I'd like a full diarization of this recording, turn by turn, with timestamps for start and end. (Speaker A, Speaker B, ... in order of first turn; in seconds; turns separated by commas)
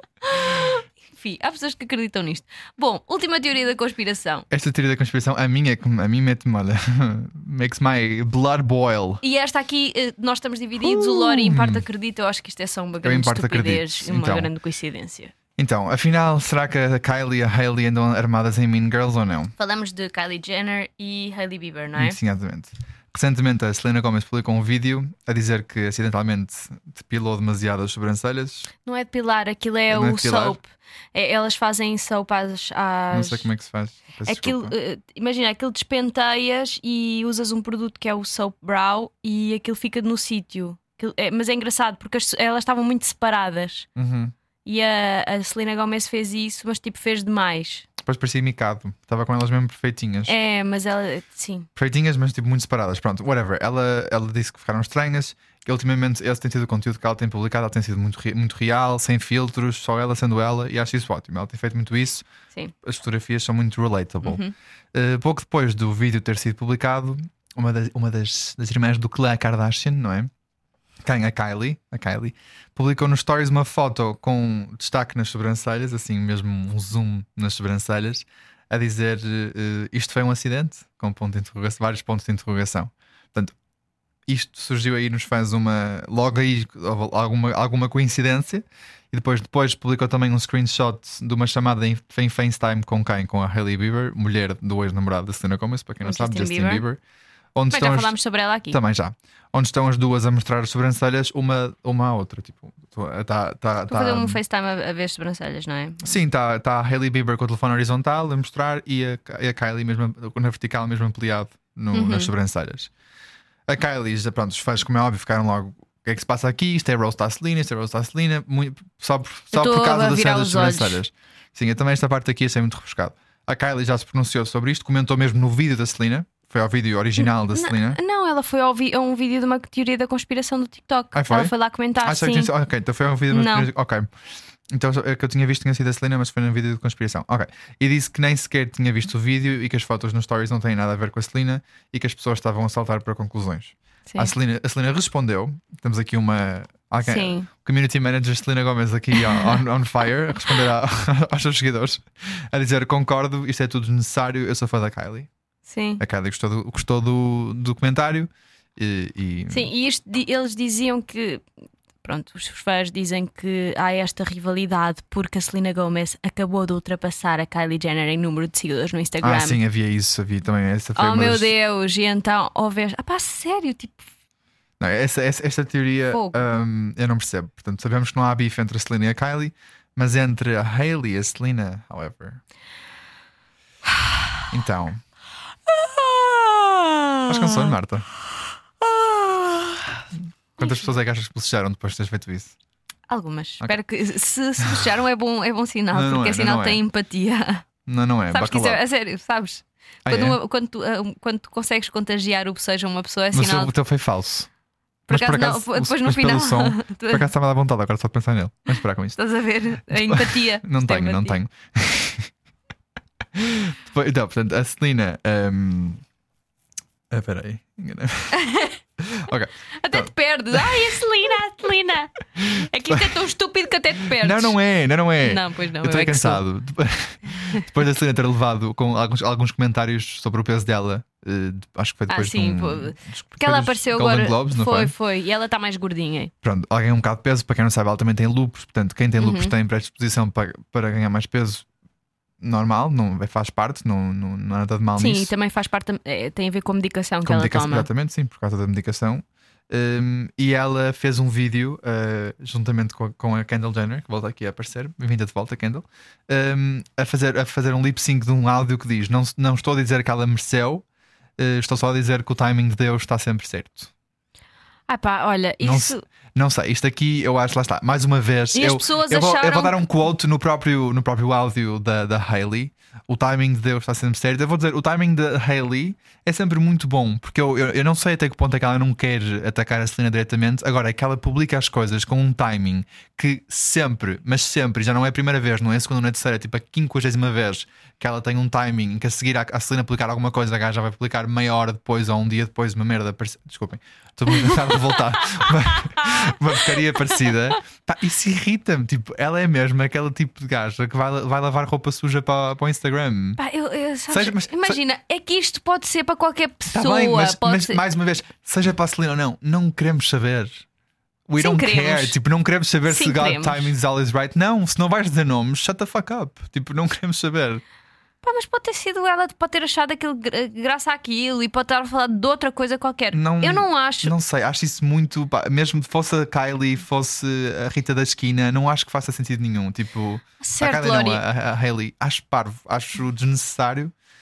Speaker A: 0.2-4.5, Speaker B: 4.5-9.2, Speaker A: 9.2-15.3, Speaker B: 10.8-11.8, Speaker B: 13.0-14.5, Speaker B: 15.6-19.5, Speaker A: 19.6-22.2, Speaker B: 21.9-28.7, Speaker A: 28.9-33.5, Speaker B: 29.9-30.6, Speaker B: 33.1-34.7, Speaker A: 34.2-43.9, Speaker B: 44.0-44.3, Speaker A: 44.6-47.9, Speaker B: 48.0-50.3, Speaker A: 50.2-51.7, Speaker B: 51.8-62.2, Speaker B: 62.8-64.4, Speaker A: 64.2-64.5, Speaker B: 64.9-70.3, Speaker B: 71.0-83.5, Speaker B: 84.3-97.0, Speaker A: 96.0-96.8, Speaker B: 97.5-98.1, Speaker A: 97.7-98.8, Speaker B: 98.7-104.4, Speaker A: 103.9-106.2, Speaker B: 106.0-112.9, Speaker A: 111.9-112.3, Speaker B: 113.7-128.0, Speaker A: 119.5-121.0, Speaker A: 127.2-132.5, Speaker B: 131.1-134.1, Speaker A: 133.3-133.7, Speaker B: 134.7-155.3, Speaker A: 147.0-147.5, Speaker A: 149.3-149.5, Speaker A: 155.7-156.0, Speaker B: 156.0-159.7, Speaker A: 159.5-161.4, Speaker A: 162.0-169.6, Speaker B: 169.2-171.5, Speaker A: 170.9-174.1, Speaker B: 174.8-182.4, Speaker A: 176.1-176.4, Speaker B: 184.5-185.0, Speaker A: 185.7-187.8, Speaker B: 187.3-188.1, Speaker A: 188.8-190.0, Speaker B: 190.6-192.5, Speaker A: 190.6-190.8, Speaker A: 193.1-197.7, Speaker B: 195.9-196.8, Speaker B: 197.8-198.8, Speaker A: 198.3-203.7, Speaker B: 200.1-200.4, Speaker B: 203.3-204.5, Speaker A: 205.1-207.2, Speaker B: 205.1-209.2, Speaker A: 209.2-211.4, Speaker B: 209.8-212.3, Speaker B: 213.3-216.0, Speaker B: 217.1-218.3, Speaker A: 218.3-218.8, Speaker B: 219.0-220.9, Speaker A: 219.8-224.6, Speaker B: 222.4-223.0, Speaker B: 224.1-234.9, Speaker A: 225.2-226.4, Speaker A: 232.1-236.3, Speaker B: 236.4-241.7, Speaker A: 239.2-239.5, Speaker B: 242.4-245.3, Speaker A: 245.0-247.9, Speaker B: 247.2-260.8, Speaker B: 261.4-263.9, Speaker A: 264.9-266.0, Speaker B: 265.6-303.4, Speaker A: 268.5-269.9, Speaker A: 294.5-294.8, Speaker A: 295.4-297.2, Speaker A: 303.4-307.8, Speaker B: 304.1-304.8, Speaker B: 306.7-310.6, Speaker B: 311.3-317.6, Speaker A: 311.4-312.1, Speaker A: 312.9-313.7, Speaker A: 318.2-324.1, Speaker B: 323.1-333.9, Speaker A: 330.4-331.2